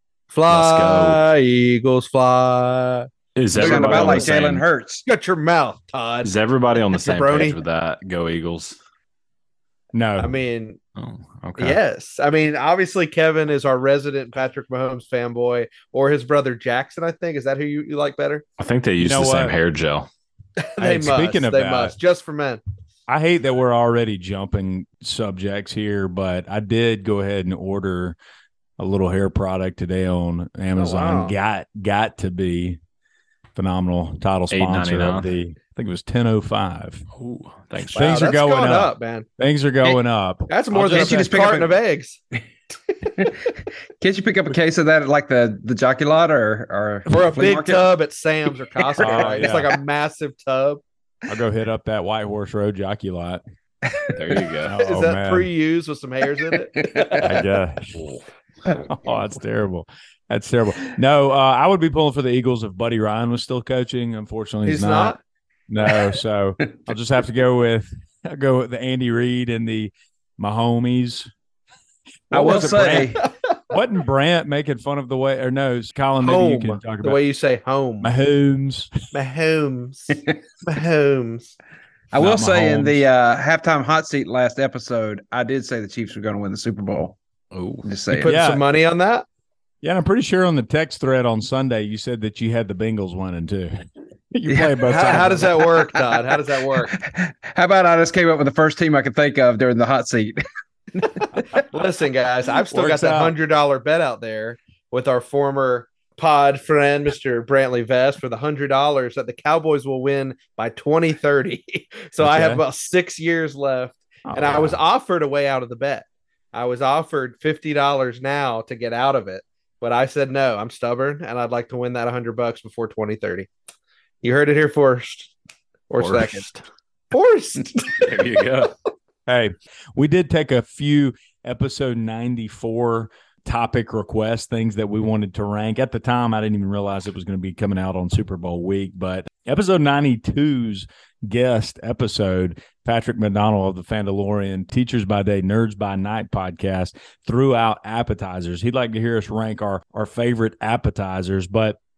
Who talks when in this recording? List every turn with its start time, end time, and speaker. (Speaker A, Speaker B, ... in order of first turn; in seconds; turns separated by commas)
Speaker A: 0.3-4.3, Speaker B: 0.5-1.2, Speaker B: 3.4-4.7, Speaker C: 3.5-5.1, Speaker A: 5.1-6.3, Speaker B: 6.2-8.8, Speaker A: 6.9-7.6, Speaker D: 9.9-10.4, Speaker A: 10.2-10.8, Speaker B: 11.0-11.8, Speaker A: 11.6-18.4, Speaker B: 18.6-20.1, Speaker D: 19.0-19.6, Speaker A: 20.6-22.6, Speaker D: 20.8-21.9, Speaker D: 23.1-28.2, Speaker D: 28.8-32.8, Speaker A: 30.8-31.4, Speaker D: 33.5-37.1, Speaker B: 34.5-35.3, Speaker B: 37.2-38.3, Speaker D: 37.8-41.3, Speaker A: 37.9-39.3, Speaker A: 40.5-42.2, Speaker C: 40.9-41.8, Speaker A: 43.0-43.5, Speaker C: 44.0-47.9, Speaker A: 47.1-50.8, Speaker C: 48.7-49.2, Speaker D: 49.0-49.7, Speaker D: 51.3-53.4, Speaker C: 53.9-54.4, Speaker B: 54.1-54.7, Speaker D: 54.7-55.5, Speaker A: 54.7-57.4, Speaker C: 56.5-57.2, Speaker D: 57.2-58.0, Speaker B: 57.9-58.7, Speaker D: 58.9-65.2, Speaker A: 64.7-65.2, Speaker D: 65.7-71.3, Speaker D: 72.3-77.2, Speaker C: 72.3-73.2, Speaker A: 76.2-78.1, Speaker D: 78.0-78.9, Speaker A: 79.1-81.5, Speaker C: 82.1-87.2, Speaker D: 82.2-83.0, Speaker B: 87.5-87.9, Speaker C: 87.8-88.4, Speaker A: 88.1-89.3, Speaker D: 88.2-88.6, Speaker D: 89.8-95.7, Speaker A: 94.8-97.0, Speaker C: 96.9-100.4, Speaker C: 100.9-101.6, Speaker A: 101.7-123.5, Speaker D: 102.7-103.3, Speaker D: 112.2-112.6, Speaker D: 114.2-114.8, Speaker A: 124.2-125.3, Speaker A: 125.9-126.4, Speaker B: 126.0-126.6, Speaker A: 127.1-128.4, Speaker B: 128.0-128.7, Speaker D: 129.3-151.8